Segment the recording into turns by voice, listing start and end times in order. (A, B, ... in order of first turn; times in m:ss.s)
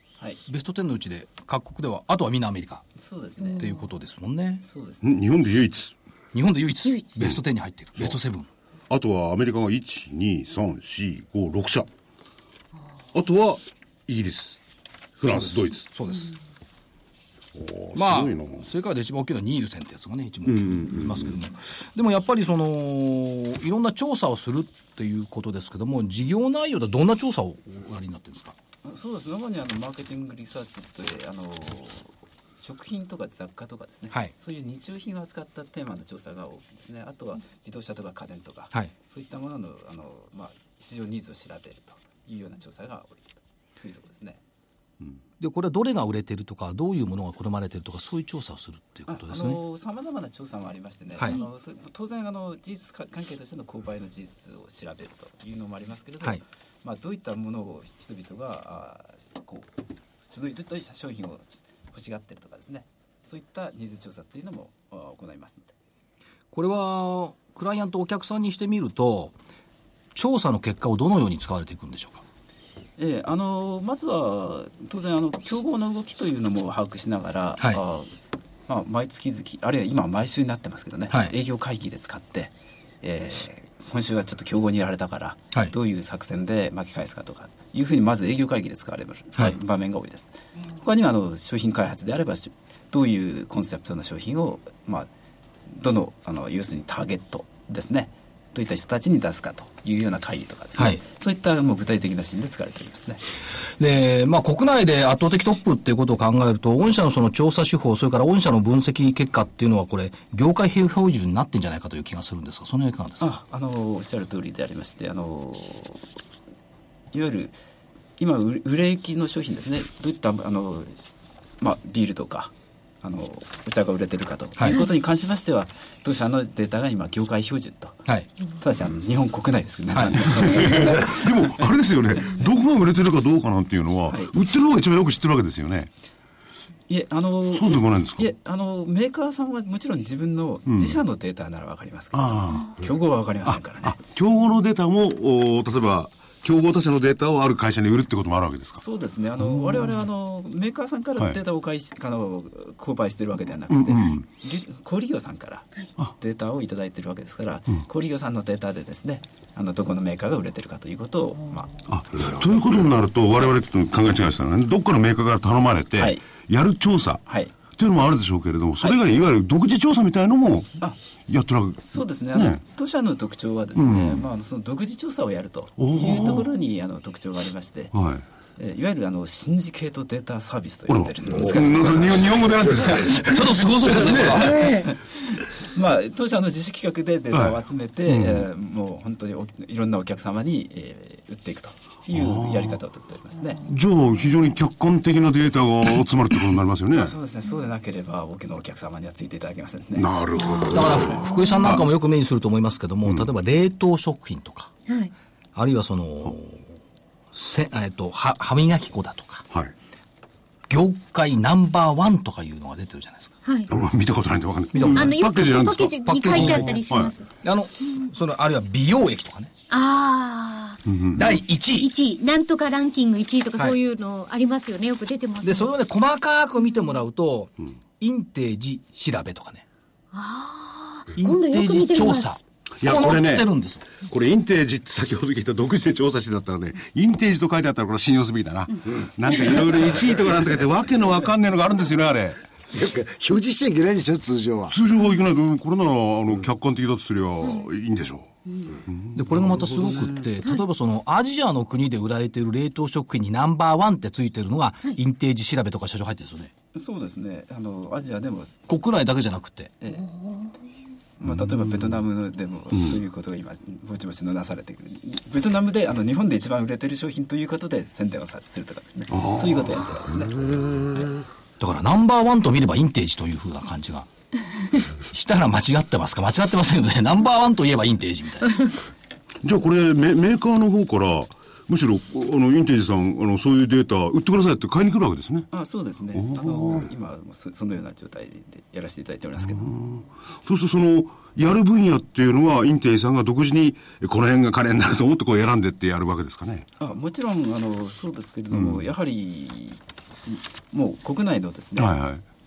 0:00.5-0:02.9 A
0:03.0-0:03.6 B
0:03.4-0:03.8 C
0:03.6-0:04.6 A
0:04.6-0:05.0 B
0:05.0-0:05.9 D
0:06.3-0:08.5 A
0:08.9-0:11.9 D
0:13.1-0:14.6 D
0:15.2-0:15.9 D
0:15.9-0:16.3 A
0:17.5-0:18.7 D
0:17.9-0:28.6 A
0:20.4-0:21.4 D
0:28.8-0:44.4 B
0:45.4-0:49.6 A
0:49.1-0:59.7 B
1:00.2-1:05.7 B
1:06.5-1:09.4 A
1:10.1-1:12.2 A
1:13.0-1:18.1 B
1:18.7-1:35.1 B
1:35.7-1:43.2 B
1:40.8-1:41.0 A
1:43.8-1:53.3 A
1:53.2-1:56.0 B
1:57.1-1:57.6 B
1:58.2-2:08.0 B
2:04.6-2:04.8 A
2:08.6-2:11.7 B
2:10.4-2:15.9 D
2:16.9-2:24.0 B
2:17.5-2:18.3 D
2:20.7-2:21.0 D
2:22.1-2:22.8 D
2:23.4-2:28.8 D
2:28.8-2:41.8 B
2:29.4-2:29.9 D
2:33.7-2:34.2 D
2:41.9-2:50.7 D
2:46.0-2:46.3 B
2:47.3-2:47.6 B
2:51.3-2:52.6 D
2:51.8-2:57.9 B
2:53.8-2:54.3 D
2:55.8-2:56.5 D
2:57.9-2:58.2 D
2:58.6-3:13.6 B
3:00.9-3:04.7 D
3:01.3-3:01.6 E
3:03.2-3:04.6 A
3:04.6-3:04.9 C
3:07.3-3:08.5 D
3:12.1-3:12.8 D
3:13.6-3:17.1 D
3:16.9-3:20.1 B
3:20.0-3:21.8 D
3:20.4-3:21.7 C
3:20.7-3:24.7 A
3:25.6-3:26.7 A
3:27.3-3:29.4 A
3:30.7-3:33.4 A
3:33.4-3:33.7 C
3:33.7-3:37.1 D
3:34.7-3:35.2 A
3:34.8-3:37.3 C
3:36.0-3:36.8 A
3:37.4-3:39.5 A
3:39.7-3:40.8 C
3:40.9-3:41.4 D
3:41.1-3:41.9 A
3:41.8-3:45.7 C
3:45.4-3:49.6 A
3:50.1-3:52.4 C
3:51.2-3:53.8 A
3:52.8-4:02.4 D
4:02.7-4:04.8 E
4:04.7-4:08.3 D
4:07.4-4:07.7 C
4:08.5-4:08.8 C
4:08.8-4:10.2 D
4:09.1-4:16.5 A
4:16.7-4:18.6 B
4:18.7-4:19.8 A
4:19.9-4:20.5 C
4:21.2-4:31.1 B
4:21.2-4:21.6 D
4:29.1-4:29.5 D
4:31.6-4:34.1 A
4:35.1-4:38.6 A
4:39.4-4:45.5 D
4:45.5-4:49.8 B
4:46.1-4:46.9 D
4:49.6-4:56.7 D
4:56.8-5:01.9 B
4:58.5-4:58.8 D
5:01.8-5:02.2 D